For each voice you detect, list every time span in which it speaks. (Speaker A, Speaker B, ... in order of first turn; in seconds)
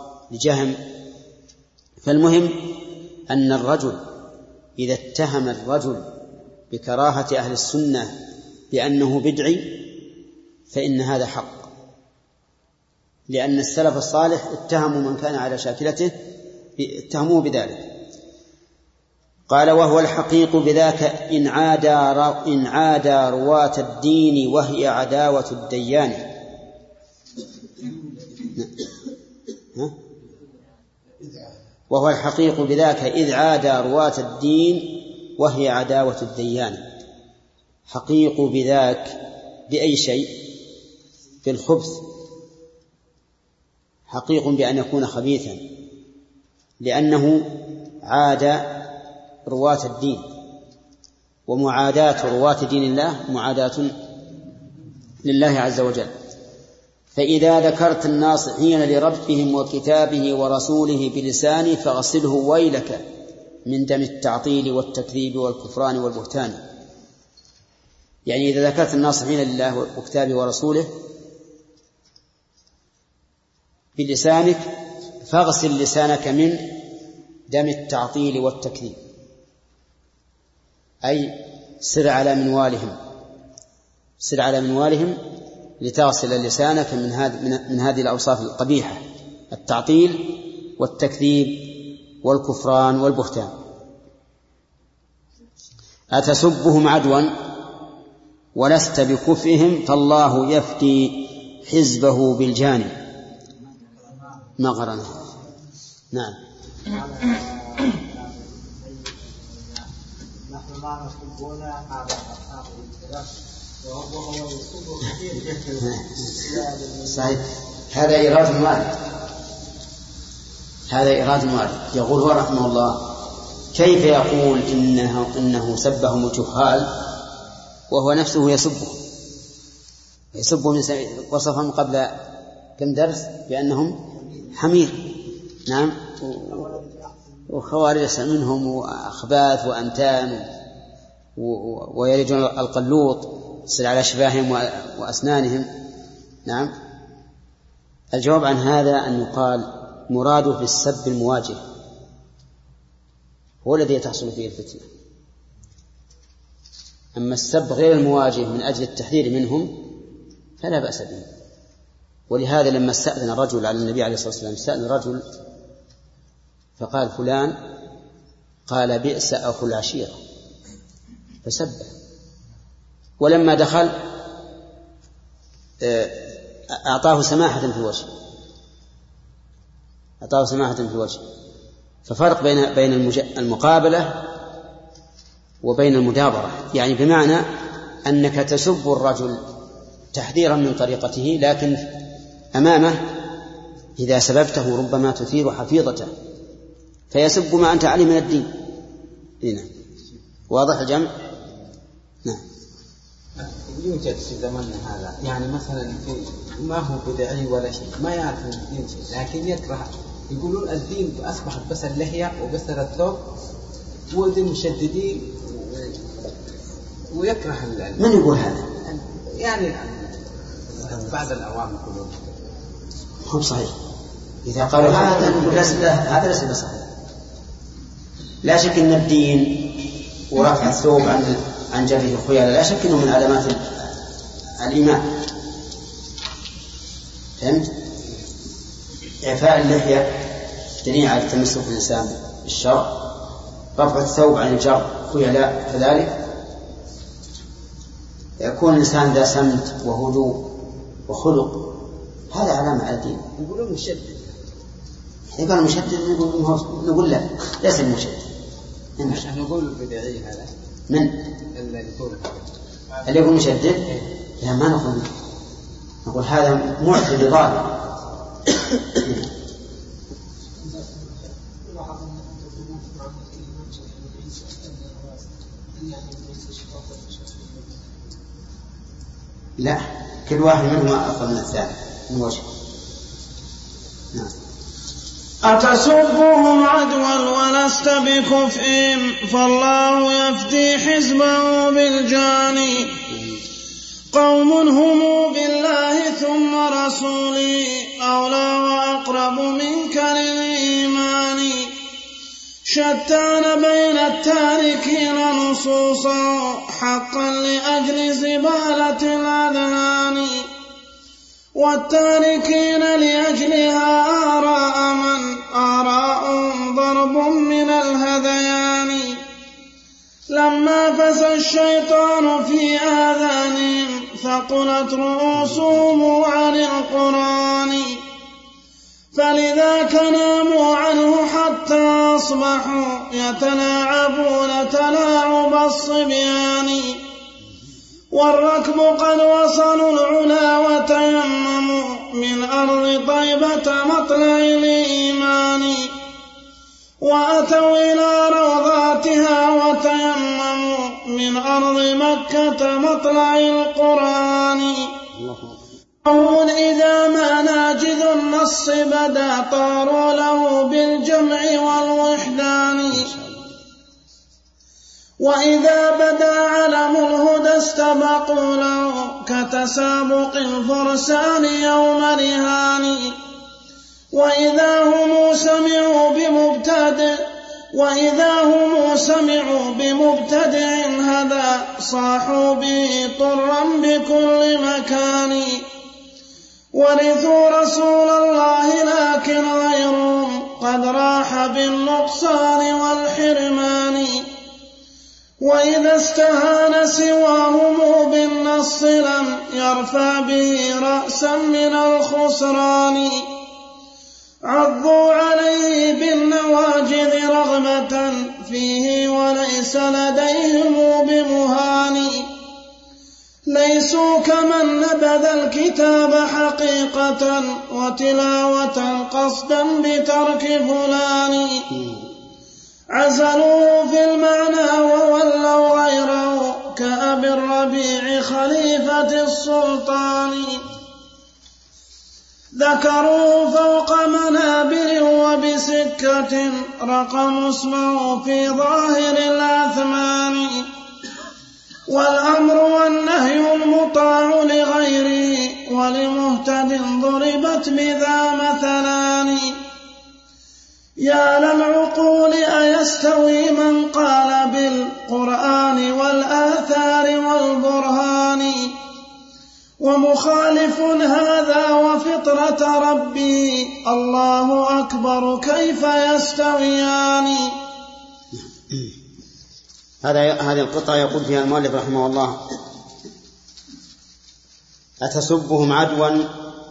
Speaker A: 0.3-0.8, 2.0-4.0, 4.8-6.1, 6.7-8.1, 8.7-9.9, 10.7-11.7, 13.3-16.1, 16.8-17.9, 19.5-26.3, 31.9-36.8, 37.9-39.1, 39.7-40.4, 41.4-42.0, 44.1-45.6, 46.8-48.9, 49.5-50.3, 51.5-53.9, 55.2-56.1, 57.1-63.0, 63.6-66.6, 68.3-70.9, 74.0-74.7, 75.2-76.8, 77.5-79.0, 81.0-83.0, 84.2-85.2, 85.8-93.5, 96.1-97.3, 98.5-102.9, 104.6-105.2, 106.1-106.4, 117.1-118.9, 120.9-123.1, 123.7-126.9, 127.9-129.0, 130.3-132.1, 132.8-134.0, 134.5-135.1, 135.7-136.7, 137.5-140.4, 141.4-145.7, 146.4-146.7, 148.1-151.6, 153.6-154.9, 157.1-159.8, 160.6-161.3, 162.3-165.2, 166.8-167.6, 168.7-170.2, 171.4-171.9, 173.2-174.0, 175.8-178.1, 180.2-181.2, 182.1-184.3, 185.6-187.5, 188.1-189.4, 190.1-191.9, 192.5-193.1, 194.0-196.1, 197.1-198.5, 199.4-199.7, 200.5-201.1, 218.0-218.7, 223.2-223.7, 224.4-226.8, 228.4-233.9, 234.6-235.2, 237.4-237.7, 239.2-240.3, 240.8-243.1, 243.8-246.2, 248.4-250.5, 251.1-253.3, 255.3-258.3, 260.9-261.3, 263.1-263.8, 264.4-265.1, 266.1-267.8, 268.9-269.3, 279.6-282.5, 293.1-293.4, 355.1-355.6, 362.9-363.5, 468.3-468.9, 470.0-472.4, 475.0-476.3
Speaker B: 104.0-104.5, 106.8-109.9, 110.4-113.3, 113.8-117.4, 134.2-134.5, 136.4-137.2
Speaker C: 203.4-213.2, 214.1-216.0, 217.1-218.1, 218.9-222.2, 224.9-225.7, 253.4-254.3, 259.0-260.5, 261.5-262.4
Speaker D: 285.4-292.9, 294.1-301.7, 302.7-310.5, 311.6-319.2, 320.3-328.0, 329.1-337.0, 338.1-345.9, 347.0-354.9, 356.1-363.1, 365.2-373.1, 374.1-385.6, 386.7-394.3, 395.4-403.3, 404.4-412.3, 413.5-421.7, 422.9-430.6, 432.6-440.7, 441.9-449.6, 451.0-458.7, 459.8-467.5